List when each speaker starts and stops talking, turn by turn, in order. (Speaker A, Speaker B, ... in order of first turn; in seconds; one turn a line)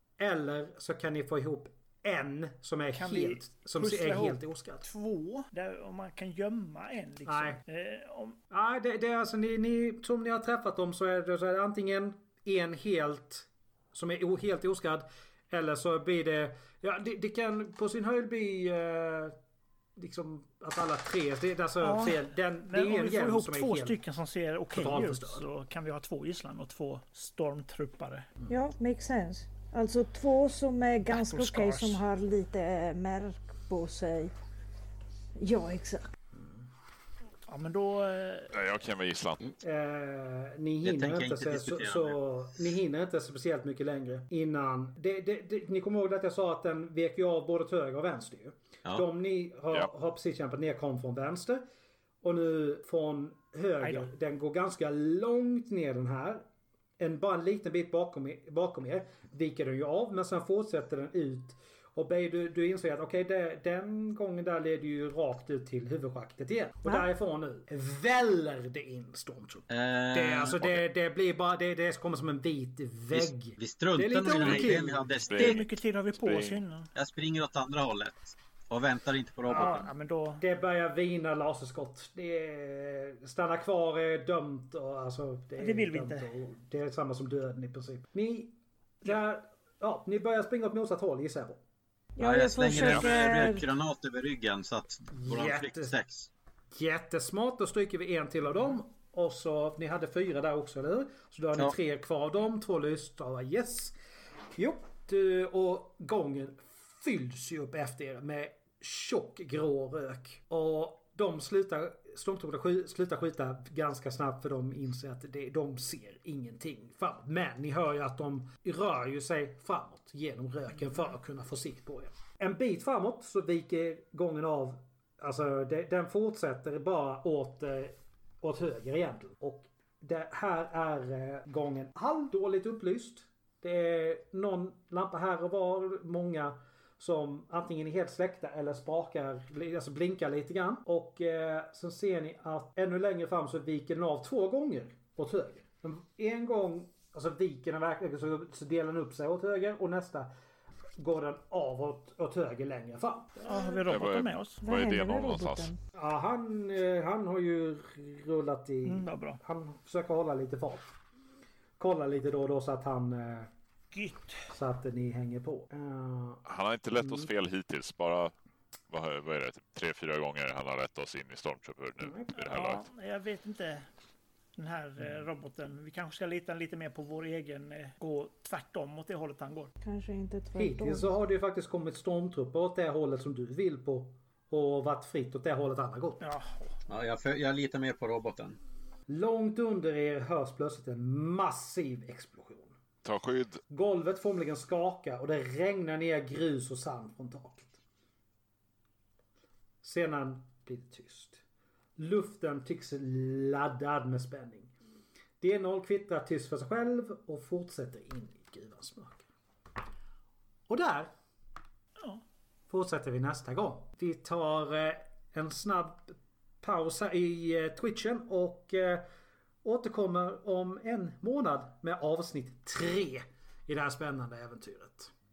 Speaker A: 0.2-4.9
Speaker B: 2.9-8.4
Speaker A: 7.2-7.6
Speaker A: 8.5-19.4
Speaker A: 19.9-24.0
Speaker B: 21.8-28.3
Speaker A: 24.7-25.4
Speaker C: 28.5-34.3
Speaker B: 31.1-32.0
Speaker C: 35.4-36.1
Speaker B: 37.5-38.5
Speaker D: 38.5-39.4
Speaker A: 39.6-51.6
Speaker E: 40.8-42.1
Speaker A: 52.2-56.5
Speaker B: 53.8-54.1
Speaker A: 57.0-75.2
Speaker E: 69.7-70.8
Speaker E: 73.1-75.6
Speaker D: 75.2-75.6
Speaker B: 75.3-76.9
Speaker D: 76.2-76.6
Speaker E: 76.9-79.9
Speaker B: 79.5-80.4
Speaker A: 79.5-79.8
Speaker A: 80.4-91.6
Speaker B: 85.6-86.3
Speaker C: 92.2-93.6
Speaker E: 92.2-96.3
Speaker D: 92.7-93.1
Speaker A: 95.2-95.9
Speaker A: 96.7-103.9
Speaker A: 104.5-150.3
Speaker A: 151.0-153.8
Speaker B: 153.4-154.6
Speaker D: 153.9-155.7
Speaker C: 154.6-155.8
Speaker A: 155.9-160.9
Speaker B: 158.8-159.4
Speaker A: 161.8-163.5
Speaker B: 163.9-164.5
Speaker A: 164.5-166.4
Speaker D: 166.4-168.3
Speaker A: 167.0-167.3
Speaker D: 168.9-172.8
Speaker A: 172.0-172.3
Speaker B: 172.3-173.9
Speaker B: 174.6-179.7
Speaker C: 179.8-181.1
Speaker A: 180.6-186.2
Speaker B: 186.2-186.8
Speaker E: 186.9-188.6
Speaker A: 189.1-192.8
Speaker D: 193.0-193.6
Speaker A: 193.7-197.8
Speaker A: 199.8-201.4
Speaker A: 202.0-204.7
Speaker A: 205.4-209.2
Speaker A: 210.7-211.1
Speaker A: 212.7-219.0
Speaker A: 219.6-225.1